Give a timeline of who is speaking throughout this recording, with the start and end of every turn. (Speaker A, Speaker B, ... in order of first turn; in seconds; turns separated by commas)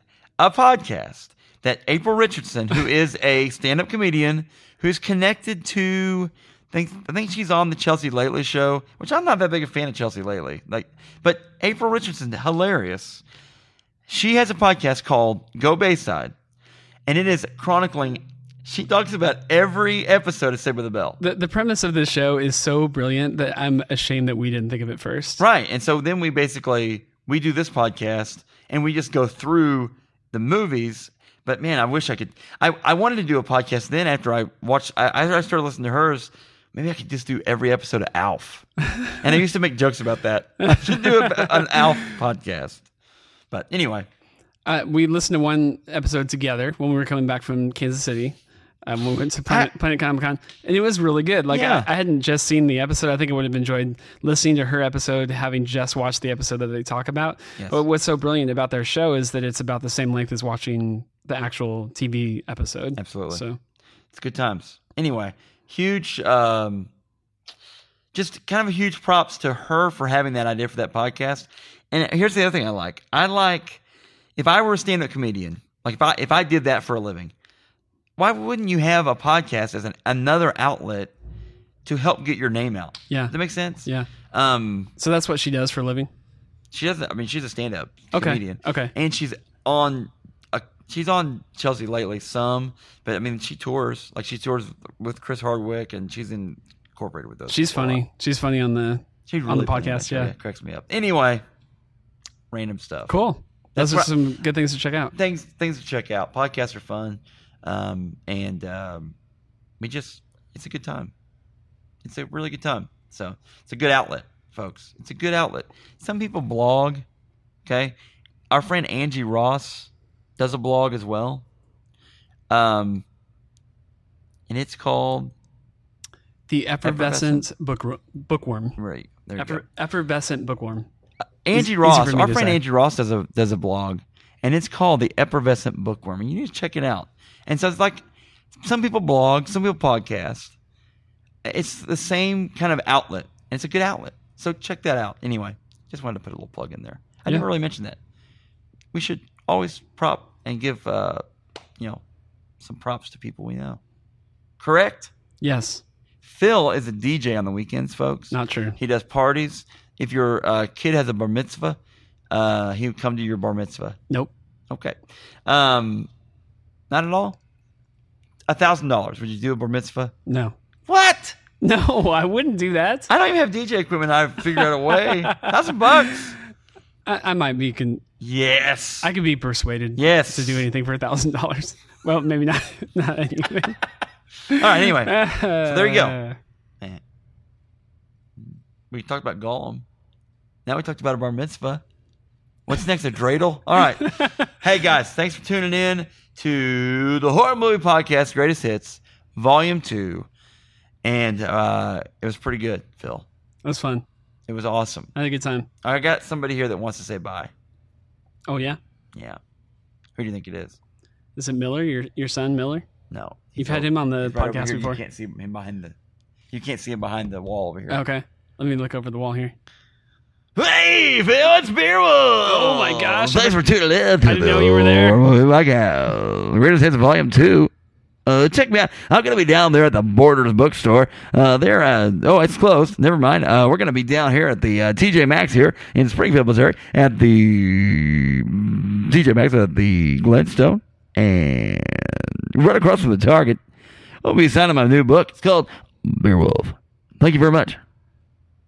Speaker A: 0.4-13.2, Speaker A: 14.1-16.4, Speaker A: 17.1-21.2, Speaker B: 21.2-25.4, Speaker A: 25.4-38.7, Speaker A: 39.2-42.8, Speaker B: 40.9-41.8, Speaker A: 43.5-44.1, Speaker B: 44.7-63.6, Speaker A: 51.5-51.9, Speaker A: 63.0-63.4, Speaker A: 64.1-66.9, Speaker A: 68.1-73.8, Speaker A: 74.4-77.3, Speaker A: 78.2-81.1, Speaker A: 81.8-84.9, Speaker B: 85.0-86.1, Speaker A: 86.7-98.0, Speaker B: 88.1-88.9, Speaker B: 97.5-100.3, Speaker A: 99.3-101.4, Speaker A: 102.5-103.1, Speaker B: 103.1-105.1, Speaker A: 103.7-104.1, Speaker A: 105.1-109.1, Speaker A: 109.8-111.1, Speaker A: 112.0-117.1, Speaker A: 117.7-118.0, Speaker A: 118.5-121.5, Speaker A: 122.5-123.0, Speaker A: 124.5-125.3, Speaker B: 126.5-128.8, Speaker A: 126.8-127.5, Speaker A: 128.8-129.6, Speaker B: 129.4-130.9, Speaker A: 131.4-138.0, Speaker B: 131.6-132.6, Speaker A: 138.6-140.6, Speaker A: 141.4-148.0, Speaker A: 148.9-151.2, Speaker A: 152.6-153.8, Speaker A: 154.6-155.1, Speaker B: 155.4-155.8, Speaker A: 156.2-161.8, Speaker B: 158.3-158.8, Speaker A: 162.3-164.0, Speaker A: 164.7-166.1, Speaker A: 166.9-167.4, Speaker A: 168.5-170.1, Speaker B: 170.3-170.6, Speaker A: 170.9-171.4, Speaker B: 171.6-173.1, Speaker A: 173.1-176.3, Speaker B: 174.6-175.5, Speaker B: 177.1-178.0, Speaker A: 178.2-179.1, Speaker B: 179.0-183.8, Speaker A: 180.0-180.7, Speaker B: 184.5-186.4, Speaker A: 184.6-186.2, Speaker A: 188.4-189.9, Speaker A: 190.7-191.8, Speaker A: 192.7-200.3, Speaker B: 194.0-194.3, Speaker A: 201.0-203.3, Speaker B: 203.7-204.1, Speaker A: 204.5-205.1, Speaker B: 205.2-205.7, Speaker A: 205.8-207.5, Speaker B: 208.5-208.8, Speaker A: 209.1-209.4, Speaker A: 210.2-210.8, Speaker B: 211.4-212.8, Speaker A: 213.1-215.9, Speaker B: 213.6-215.0, Speaker A: 216.5-218.0, Speaker B: 217.9-219.5, Speaker A: 220.6-227.7, Speaker B: 222.4-223.6, Speaker B: 224.2-225.2, Speaker A: 228.3-243.6, Speaker A: 244.2-247.8